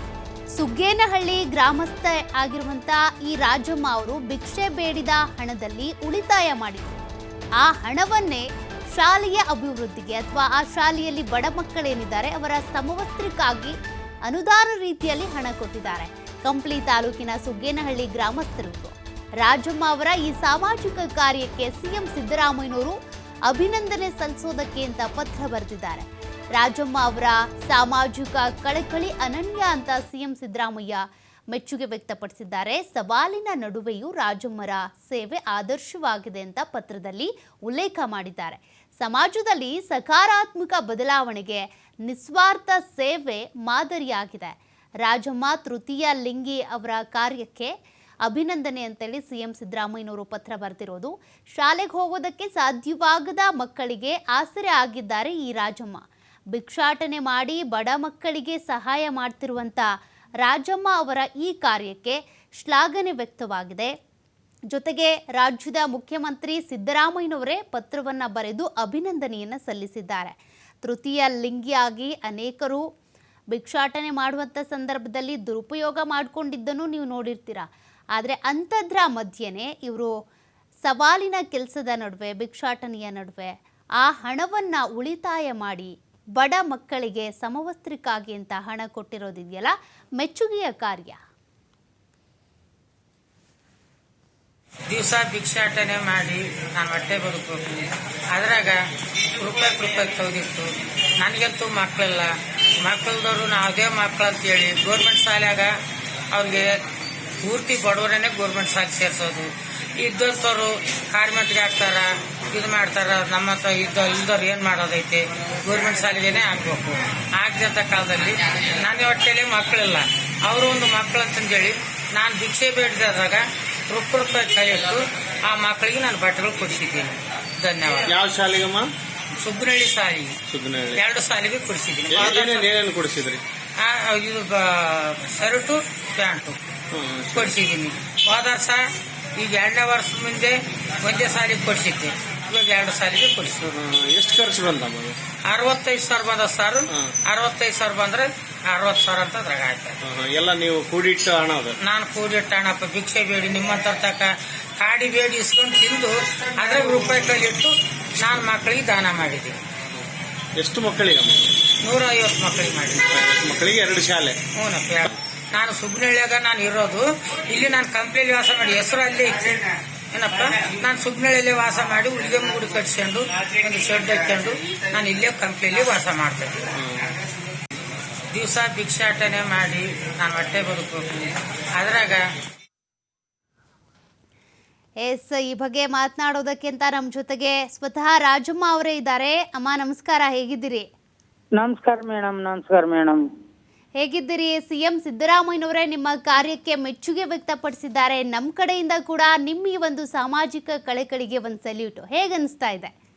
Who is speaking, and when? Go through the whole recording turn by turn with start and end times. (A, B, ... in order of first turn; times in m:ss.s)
0:00.5-0:06.9 A
0:07.6-0:13.7 A
0:14.2-0:23.0 A
0:23.5-0:47.7 A
0:48.2-0:56.0 A
0:56.5-0:59.8 A
1:00.4-1:03.9 A
1:04.7-1:12.8 A
1:13.5-1:20.1 A
1:20.8-1:31.2 A
1:34.9-1:38.8 B
1:39.3-1:45.7 B
1:46.3-1:46.8 B
1:47.4-2:08.2 B
2:08.1-2:08.9 C
2:09.4-2:10.4 B
2:10.5-2:11.0 C
2:10.9-2:12.7 B
2:12.1-2:13.4 C
2:13.8-2:16.6 B
2:16.9-2:17.5 C
2:17.3-2:18.8 B
2:19.4-2:23.7 B
2:23.6-2:25.2 C
2:25.5-2:30.0 B
2:26.9-2:27.1 C
2:30.0-2:31.8 C
2:31.8-2:39.6 B
2:40.6-2:41.5 C
2:41.8-2:43.2 B
2:43.1-2:44.4 C
2:44.6-2:49.6 B
2:50.1-2:56.7 B
2:56.8-2:57.1 C
2:58.3-3:01.2 B
3:01.7-3:02.2 B
3:05.0-3:10.9 A
3:11.6-3:13.2 B
3:14.0-3:22.9 A